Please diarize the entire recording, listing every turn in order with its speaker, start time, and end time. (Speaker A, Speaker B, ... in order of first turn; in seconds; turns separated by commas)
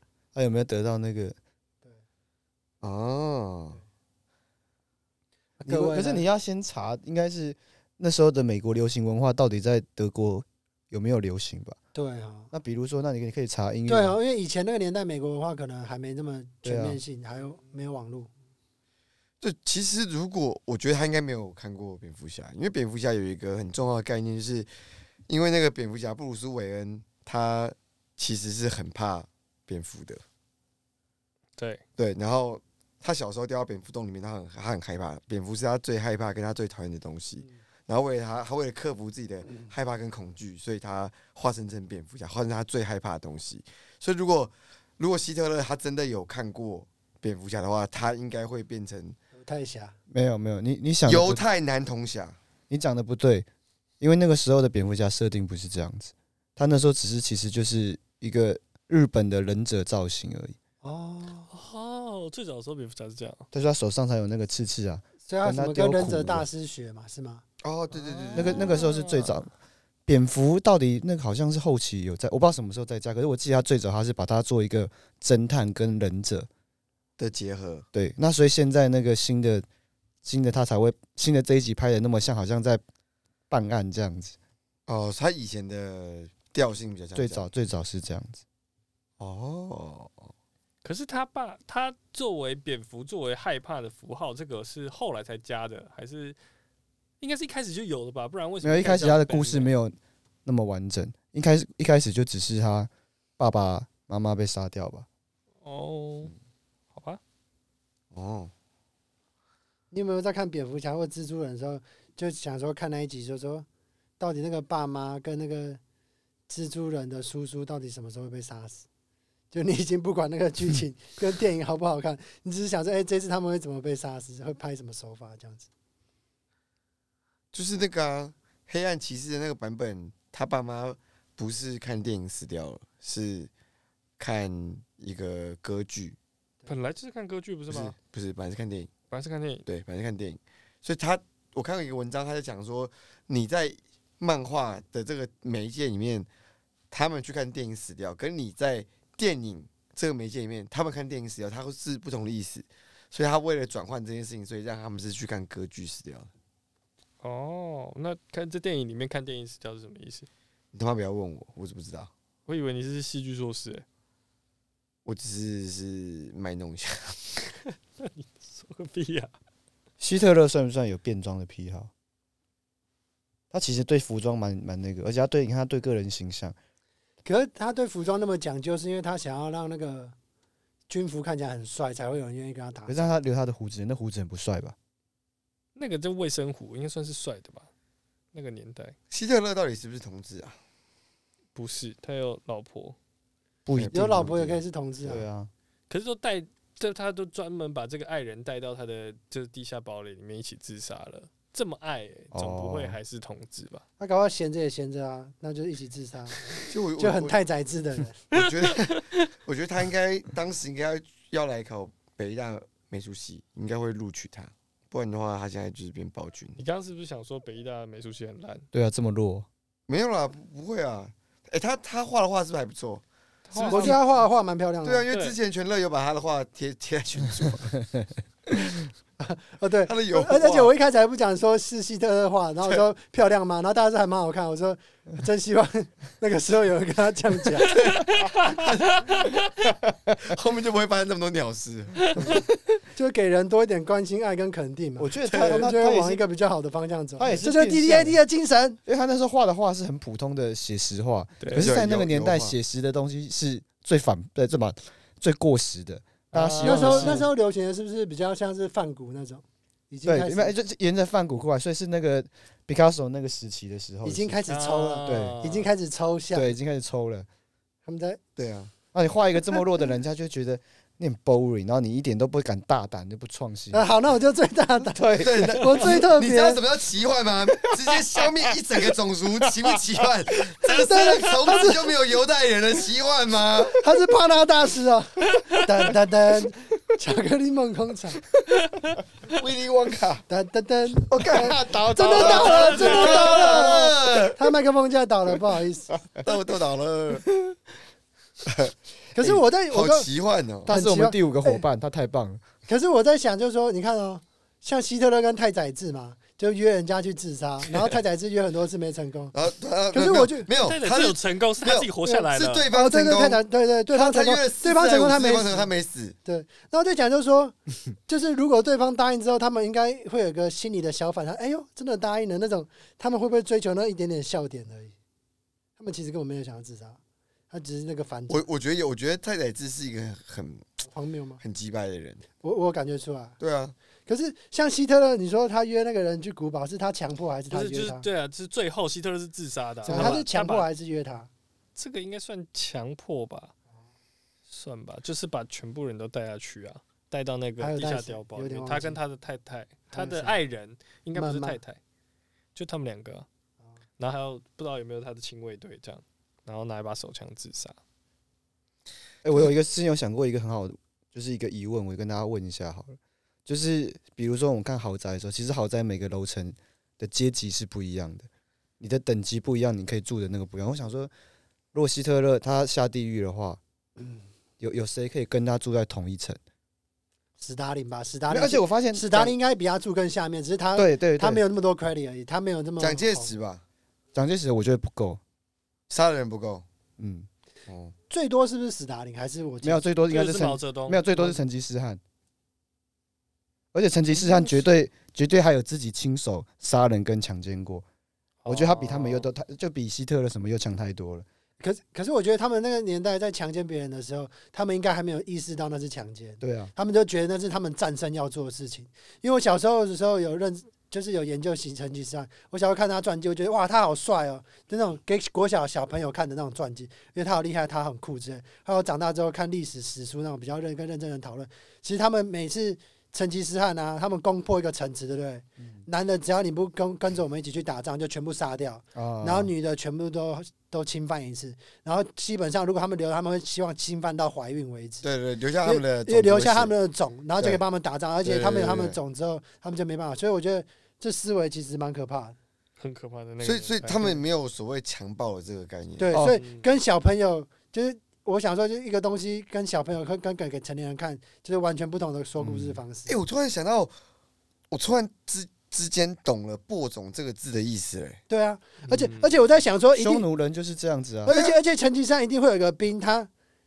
Speaker A: 0.3-1.4, Speaker B: 2.8-3.8, Speaker A: 5.6-11.8, Speaker C: 5.7-6.2, Speaker C: 11.9-12.5, Speaker A: 12.5-14.2, Speaker C: 13.9-18.3, Speaker A: 16.6-17.0, Speaker B: 19.4-24.7, Speaker B: 25.3-30.2, Speaker B: 32.0-49.1, Speaker C: 49.3-49.9, Speaker A: 50.1-51.4, Speaker B: 51.0-52.4, Speaker A: 52.7-53.5, Speaker A: 54.0-60.5, Speaker C: 60.8-61.5, Speaker D: 61.5-63.4, Speaker A: 63.5-66.5, Speaker C: 65.2-67.4, Speaker B: 67.6-68.7, Speaker D: 67.9-69.3, Speaker A: 68.3-69.5, Speaker A: 70.1-76.5, Speaker B: 77.2-77.8, Speaker A: 77.9-79.6, Speaker A: 80.2-82.8, Speaker A: 83.5-84.3, Speaker B: 84.9-87.4, Speaker A: 87.1-88.4, Speaker B: 89.2-90.3, Speaker D: 90.8-96.4, Speaker D: 97.2-99.7, Speaker A: 98.6-105.0, Speaker D: 105.6-106.3, Speaker D: 106.9-107.2, Speaker B: 108.1-108.5, Speaker C: 109.9-113.7, Speaker C: 114.2-115.8, Speaker C: 116.5-118.8, Speaker C: 119.5-125.7, Speaker B: 127.5-133.5, Speaker B: 134.2-136.2, Speaker D: 136.7-137.9, Speaker B: 137.7-138.9, Speaker D: 139.1-139.6, Speaker B: 139.7-146.3, Speaker B: 146.9-156.3, Speaker D: 157.2-160.3, Speaker B: 160.7-162.1, Speaker D: 162.5-163.8, Speaker B: 165.0-167.2, Speaker D: 168.0-169.3, Speaker A: 170.0-171.9, Speaker A: 173.5-176.6, Speaker C: 177.2-180.1, Speaker C: 180.9-183.0, Speaker A: 182.9-184.7, Speaker D: 185.8-187.7, Speaker D: 188.3-188.9, Speaker B: 189.1-190.6, Speaker D: 191.5-192.9, Speaker A: 193.7-195.5, Speaker C: 193.9-195.2, Speaker D: 195.9-203.8, Speaker A: 202.3-203.0, Speaker C: 204.0-206.4, Speaker B: 206.7-207.4, Speaker C: 207.0-208.2, Speaker B: 208.3-216.6, Speaker D: 208.3-209.3, Speaker D: 216.6-218.7, Speaker A: 218.7-219.5, Speaker B: 219.9-223.0, Speaker D: 223.5-223.9, Speaker B: 223.6-223.9, Speaker A: 223.6-223.9, Speaker C: 223.6-225.0, Speaker B: 224.8-227.8, Speaker D: 225.1-225.4, Speaker C: 229.2-237.8, Speaker B: 229.8-230.7, Speaker B: 237.7-239.2, Speaker D: 237.7-239.4, Speaker B: 240.2-242.4, Speaker C: 242.9-248.8, Speaker A: 245.0-246.2, Speaker B: 245.2-245.7, Speaker A: 247.2-248.2, Speaker A: 248.8-257.3, Speaker D: 251.4-251.7, Speaker B: 251.6-252.5, Speaker D: 256.3-257.3, Speaker C: 256.6-260.6, Speaker A: 260.0-264.4, Speaker C: 264.0-266.5, Speaker D: 264.5-265.7, Speaker A: 265.1-265.4, Speaker A: 266.3-267.3, Speaker C: 267.9-268.2, Speaker B: 268.4-268.7, Speaker A: 268.9-273.9, Speaker C: 273.7-276.6, Speaker A: 274.9-275.6, Speaker B: 275.2-283.8, Speaker C: 280.7-281.8, Speaker C: 283.8-288.2, Speaker B: 289.3-290.2, Speaker C: 290.3-295.9, Speaker B: 291.1-294.4, Speaker A: 291.2-293.9, Speaker D: 292.2-293.6, Speaker B: 296.2-297.3, Speaker B: 298.4-300.7, Speaker C: 299.1-300.1, Speaker A: 300.6-302.4, Speaker C: 300.7-301.6, Speaker C: 302.7-309.3, Speaker B: 309.3-313.4, Speaker C: 309.9-310.5, Speaker D: 310.6-312.7, Speaker C: 312.0-315.7, Speaker B: 313.9-316.1, Speaker C: 316.2-317.5, Speaker C: 318.1-324.9, Speaker C: 325.8-327.0, Speaker C: 327.5-328.4, Speaker B: 328.3-330.6, Speaker C: 330.9-331.4, Speaker B: 331.4-332.2, Speaker C: 332.4-333.4, Speaker B: 333.4-333.7, Speaker C: 334.1-338.1, Speaker D: 337.5-340.7, Speaker C: 339.8-341.3, Speaker A: 339.9-340.2, Speaker D: 341.8-343.5, Speaker D: 344.5-351.8, Speaker C: 347.6-349.0, Speaker C: 349.9-350.4, Speaker C: 351.1-351.6, Speaker D: 352.5-353.2, Speaker D: 354.0-357.8, Speaker A: 359.2-368.3, Speaker A: 368.8-371.1, Speaker A: 371.7-373.6, Speaker A: 374.6-376.4, Speaker C: 377.4-383.3, Speaker A: 378.3-379.4, Speaker A: 380.8-381.4, Speaker B: 382.8-383.6, Speaker A: 384.1-385.2, Speaker B: 385.9-386.6, Speaker A: 387.0-387.3, Speaker B: 387.7-387.9, Speaker C: 388.1-389.9, Speaker A: 389.6-392.0, Speaker D: 390.1-391.1, Speaker A: 393.7-397.8, Speaker D: 398.4-399.3, Speaker A: 398.5-401.2, Speaker C: 401.6-435.1, Speaker A: 406.4-406.7, Speaker A: 428.9-429.5, Speaker B: 435.0-436.7, Speaker C: 435.6-442.4, Speaker B: 438.2-439.0, Speaker D: 442.8-444.2, Speaker B: 443.4-446.1, Speaker C: 446.0-453.1, Speaker A: 446.1-446.4, Speaker D: 446.3-446.6, Speaker A: 452.4-452.8, Speaker B: 453.1-453.9, Speaker B: 454.7-458.2, Speaker C: 458.3-460.2, Speaker D: 458.9-459.3, Speaker A: 459.9-461.4, Speaker C: 461.2-463.3, Speaker B: 461.3-461.6